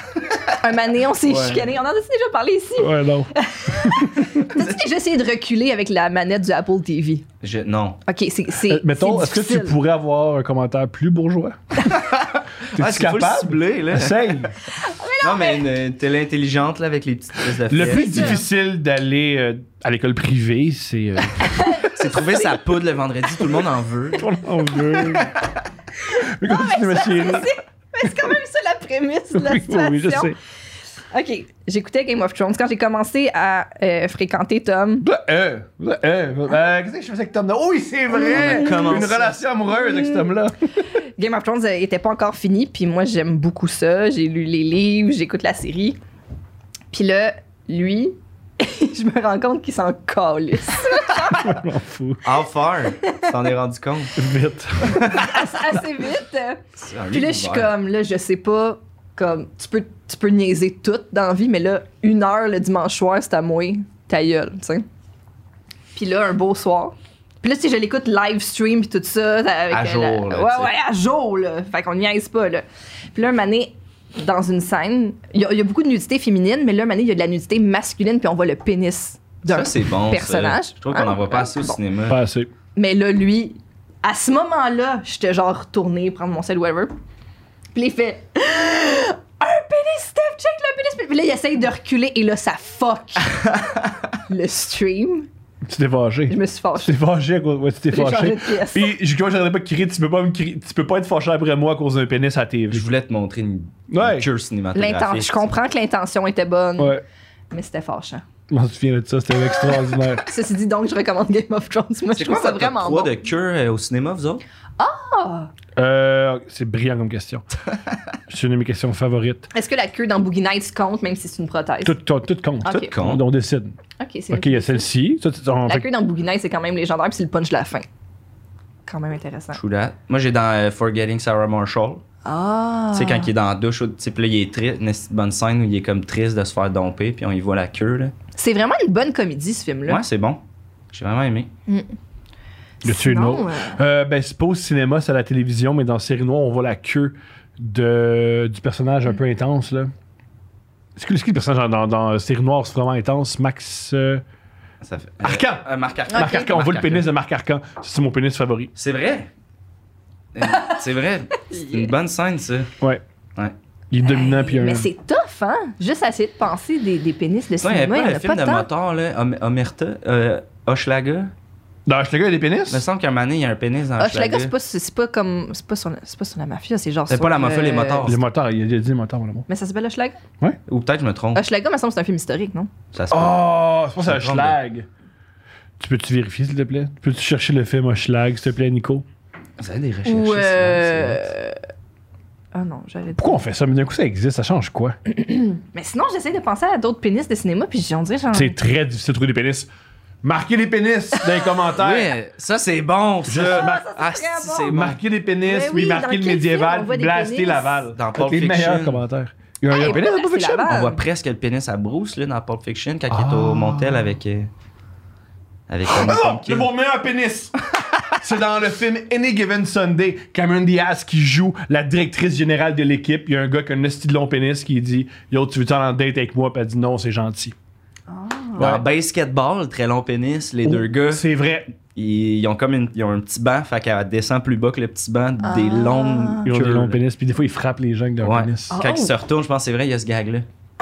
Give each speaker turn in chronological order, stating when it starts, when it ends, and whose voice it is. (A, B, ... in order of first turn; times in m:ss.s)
0:00.2-0:00.5 A
0:00.6-0:07.2 B
0:02.8-0:04.3 C
0:07.4-0:08.0 A
0:08.1-0:09.8 B
0:08.7-0:11.8 C
0:11.9-0:14.4 A
0:12.7-0:14.6 C
0:14.7-0:15.7 B
0:15.2-0:18.4 A
0:17.7-0:21.7 C
0:17.8-0:18.5 B
0:21.5-0:22.5 B
0:21.8-0:24.3 A
0:24.2-0:25.3 C
0:25.0-0:25.5 A
0:26.0-0:30.4 B
0:26.2-0:27.5 C
0:29.3-0:30.4 C
0:31.1-0:35.1 B
0:35.0-0:40.8 C
0:38.2-0:39.0 B
0:38.2-0:39.4 A
0:39.7-0:40.2 B
0:41.2-0:46.0 B
0:46.9-0:51.6 B
0:51.4-0:52.2 C
0:52.2-0:54.2 A
0:54.2-0:55.1 C
0:54.9-0:55.4 A
0:55.0-0:56.6 B
0:56.8-0:57.7 A
0:57.1-1:04.9 B
1:06.0-1:21.8 B
1:09.7-1:10.7 A
1:19.5-1:22.2 A
1:22.1-1:22.5 C
1:22.8-1:26.9 B
1:27.8-1:33.4 B
1:34.3-1:35.3 B
1:35.6-1:42.9 C
1:36.3-1:37.0 B
1:37.9-1:38.9 B
1:42.7-1:45.5 A
1:43.9-1:44.3 C
1:44.8-1:47.0 B
1:46.8-1:47.0 C
1:47.5-1:48.2 B
1:48.5-1:50.2 C
1:50.2-1:53.1 B
1:52.2-1:54.4 A
1:54.8-1:55.5 B
1:55.8-1:57.5 C
1:58.3-1:59.5 C
1:59.5-2:02.0 B
2:01.8-2:03.8 C
2:02.6-2:02.9 B
2:02.7-2:03.2 A
2:04.0-2:04.9 B
2:04.3-2:05.9 C
2:05.7-2:07.9 B
2:08.9-2:09.6 B
2:09.5-2:12.0 A
2:12.2-2:13.3 B
2:12.9-2:18.1 A
2:18.4-2:20.0 B
2:19.9-2:21.5 A
2:22.8-2:23.8 B
2:22.8-2:29.9 C
2:31.0-2:34.2 C
2:34.8-2:37.0 A
2:35.2-2:38.7 C
2:36.1-2:36.5 B
2:38.8-2:39.3 A
2:40.3-2:42.7 A
2:41.5-2:41.9 B
2:43.9-2:44.9 C
2:44.0-2:48.7 B
2:47.6-2:51.3 A
2:51.9-2:52.8 C
2:52.7-2:54.5 A
2:54.0-2:58.1 B
2:57.1-2:58.2 A
2:58.0-2:59.5 C
2:59.5-3:00.2 B
3:00.7-3:01.4 A
3:01.4-3:02.7 B
3:02.9-3:04.6 A
3:03.1-3:04.9 C
3:05.8-3:09.0 C
3:09.6-3:11.3 A
3:10.0-3:11.6 B
3:12.5-3:13.4 B
3:13.2-3:15.0 C
3:15.1-3:18.6 B
3:18.3-3:19.7 C
3:20.2-3:22.1 C
3:21.8-3:25.0 A
3:23.3-3:23.8 C
3:23.4-3:24.7 B
3:24.7-3:30.7 C
3:25.4-3:27.9 B
3:27.9-3:29.0 A
3:29.7-3:31.0 B
3:30.6-3:34.5 A
3:33.1-3:34.2 C
3:35.7-3:36.7 A
3:35.9-3:37.6 C
3:38.2-3:47.6 C
3:48.1-3:48.8 B
3:48.6-3:48.8 C
3:48.6-3:51.2 A
3:50.6-3:51.7 C
3:52.0-3:57.0 A
3:55.4-3:56.5 B
3:56.4-3:58.8 C
3:58.2-4:00.5 A
3:58.7-3:59.1 B